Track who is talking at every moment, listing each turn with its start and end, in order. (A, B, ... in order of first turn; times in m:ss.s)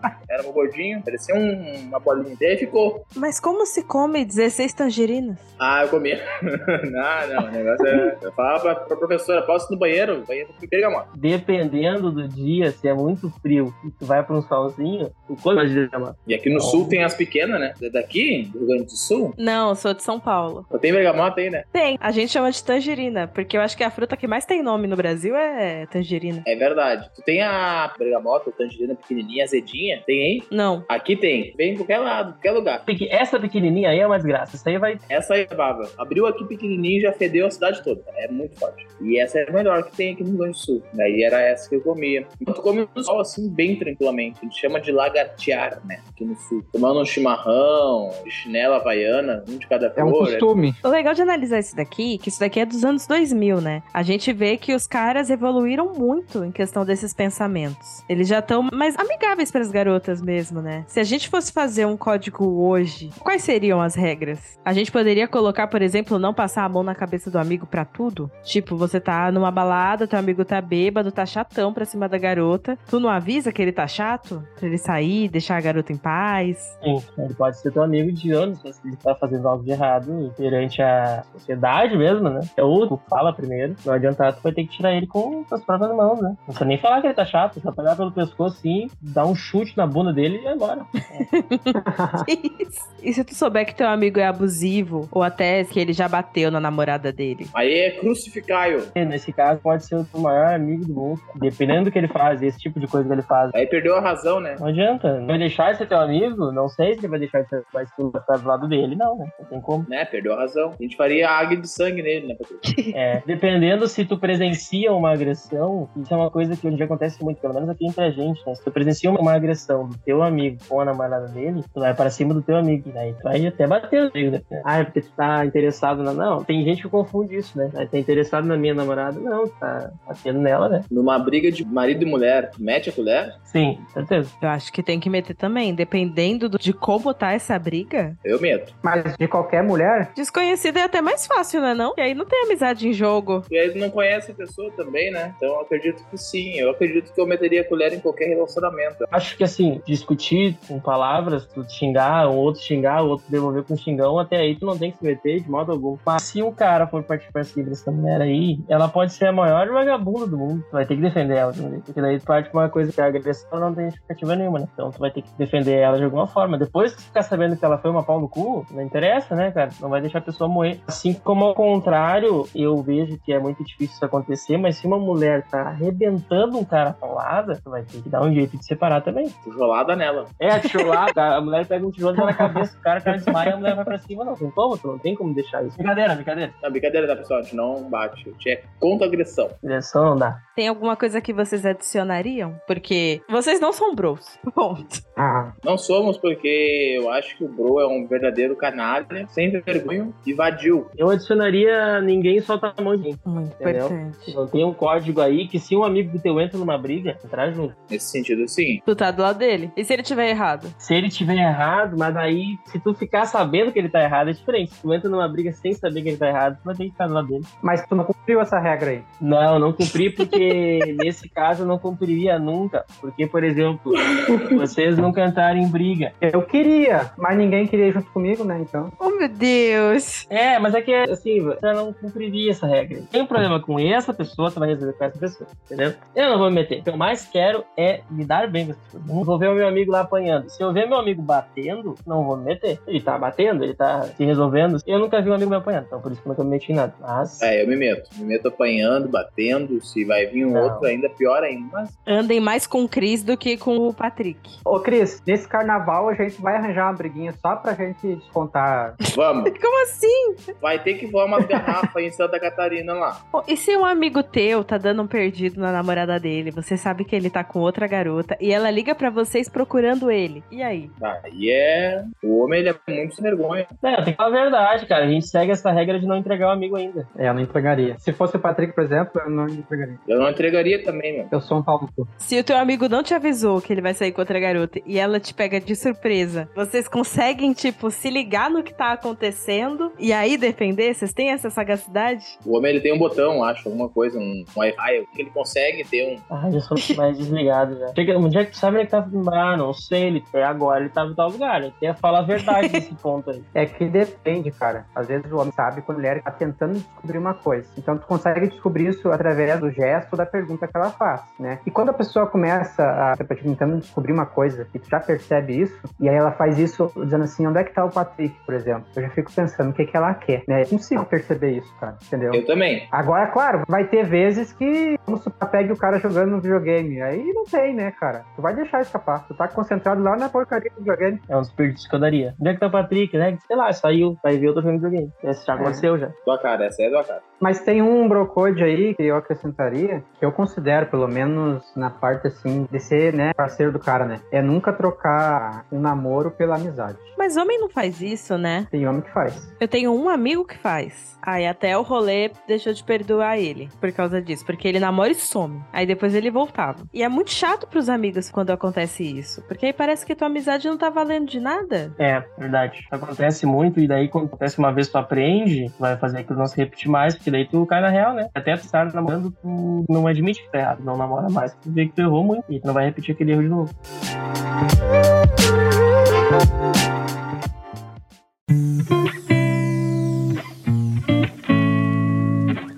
0:00.3-0:03.1 A
0:03.2-0:05.4 B
0:05.6-0:11.1 A
0:11.1-0:17.0 C
0:16.3-0:19.4 A
0:19.4-0:20.7 B
0:20.7-0:21.7 A
0:21.7-0:26.4 B
0:26.4-0:32.8 A
0:30.5-0:30.9 B
0:32.9-0:35.0 C
0:35.1-0:50.5 A
0:50.0-0:50.8 D
0:50.8-1:16.8 B
1:16.8-1:31.3 C
1:31.4-1:37.5 B
1:31.8-1:32.3 D
1:37.5-1:38.9 A
1:39.0-1:43.5 C
1:43.5-1:44.6 A
1:44.6-1:49.9 C
1:49.9-1:52.7 A
1:52.7-1:53.0 B
1:52.9-2:10.9 C
2:10.9-2:13.4 A
2:13.5-2:14.3 C
2:14.4-2:18.2 B
2:18.2-2:18.7 A
2:18.8-2:20.1 D
2:20.2-2:23.5 B
2:23.5-2:29.1 A
2:29.1-2:59.4 C
2:59.4-3:00.3 A
3:00.4-3:06.6 C
3:02.2-3:03.6 D
3:06.6-3:09.6 A
3:09.6-3:10.4 C
3:10.6-3:15.0 B
3:15.2-3:15.5 D
3:15.6-3:20.9 A
3:21.0-3:27.8 C
3:23.2-3:24.4 B
3:27.9-3:28.8 A
3:28.9-3:30.8 B
3:30.8-3:37.5 C
3:37.6-3:39.0 D
3:39.2-3:46.1 C
3:46.2-3:48.9 D
3:49.0-3:50.3 B
3:50.3-4:07.5 C
4:07.4-4:12.0 A
4:10.4-4:10.9 C
4:12.1-4:14.6 B
4:14.7-4:19.0 D
4:19.1-4:19.6 A
4:19.5-4:20.5 B
4:20.6-4:23.2 A
4:23.3-4:30.9 B
4:31.0-4:33.7 A
4:33.8-4:37.1 C
4:37.2-4:40.0 D
4:40.1-4:41.3 A
4:41.3-4:42.1 D
4:42.2-4:52.4 B
4:52.4-4:56.2 A
4:56.3-5:03.5 C
5:03.6-5:31.2 D
5:22.3-5:22.9 A
5:31.3-5:36.1 C
5:35.6-5:35.9 D
5:36.2-5:37.2 A
5:37.4-5:47.1 D
5:47.2-5:48.7 B
5:48.7-5:49.5 D
5:49.6-6:02.0 B
6:02.0-6:13.7 C